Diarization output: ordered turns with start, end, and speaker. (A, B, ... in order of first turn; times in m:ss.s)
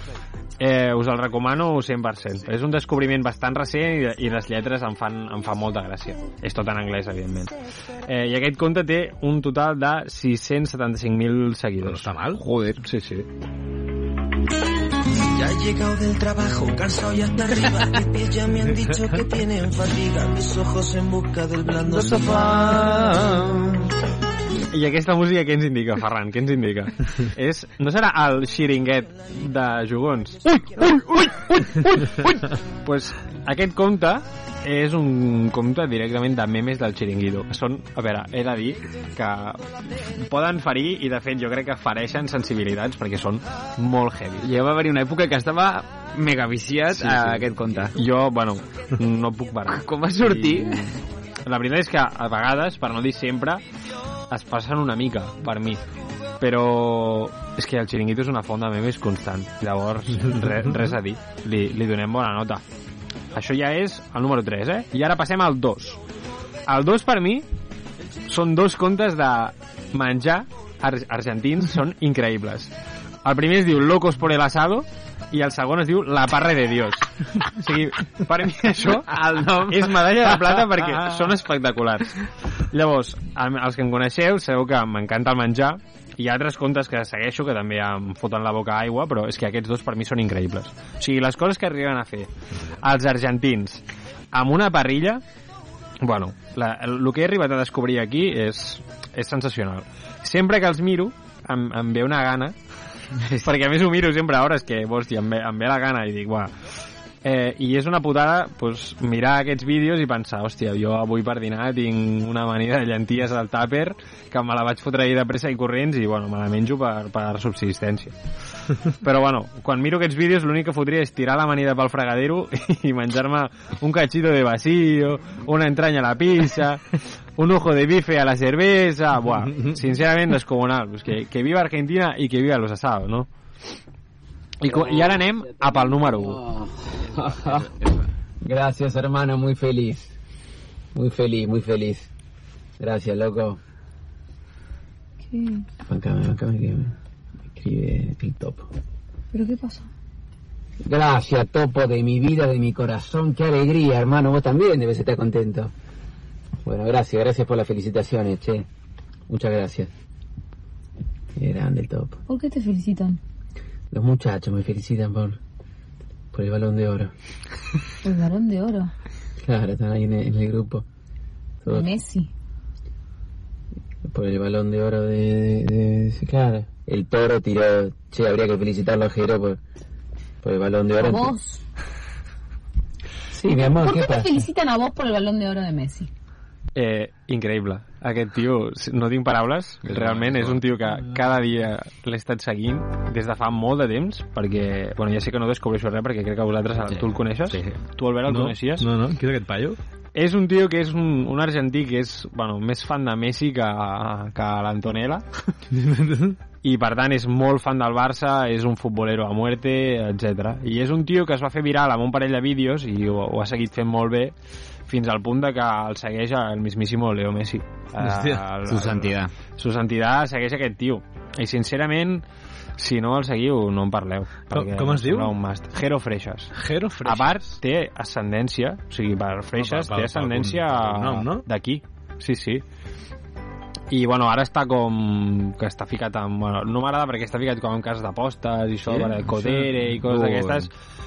0:00.6-0:12.1 A
0:11.8-0:12.4 B
0:12.4-0:12.8 C
0:12.8-0:13.3 A
0:15.1-0:23.4 D
0:22.1-0:23.4 C
0:24.7-0:39.6 A
0:40.2-0:44.4 A
0:44.4-0:48.0 C
0:47.0-0:51.0 A
0:49.7-0:50.9 C
0:51.5-0:53.6 A
0:54.3-0:55.8 A
0:56.4-1:02.6 A
1:03.3-1:06.0 A
1:06.7-1:07.4 A
1:08.3-1:12.7 A
1:13.2-1:22.2 A
1:19.1-1:21.2 C
1:22.7-1:32.3 A
1:32.8-1:35.2 A
1:36.0-1:42.6 A
1:43.4-1:46.5 A
1:47.2-1:58.1 A
1:59.0-2:13.3 A
2:14.6-2:16.4 A
2:16.3-2:17.7 E
2:18.4-2:20.1 E
2:20.9-2:22.1 E
2:22.8-2:23.6 E
2:25.3-2:25.6 F
2:25.8-2:26.9 E
2:27.5-2:28.7 E
2:29.3-2:29.9 F
2:30.8-2:35.7 E
2:36.6-2:38.7 E
2:39.3-2:39.9 E
2:41.4-2:42.2 E
2:42.3-2:43.2 F
2:43.9-2:45.4 E
2:46.3-2:47.1 E
2:48.0-2:48.9 F
2:49.4-2:50.8 E
2:51.6-2:51.9 E
2:51.7-2:52.3 F
2:54.0-2:59.6 E
3:00.4-3:01.4 E
3:01.0-3:01.6 F
3:03.3-3:04.5 E
3:03.7-3:06.1 F
3:06.8-3:18.9 A
3:09.9-3:10.6 C
3:16.9-3:17.8 C
3:18.3-3:19.8 B
3:20.2-3:25.2 A
3:25.7-3:26.4 B
3:26.6-3:34.3 A
3:34.9-3:42.2 A
3:38.0-3:38.4 B
3:38.7-3:39.3 C
3:42.8-3:46.5 A
3:44.5-3:45.3 B
3:46.6-3:47.5 B
3:47.0-3:52.6 A
3:49.6-3:51.4 B
3:53.9-4:00.7 A
3:58.9-4:00.7 C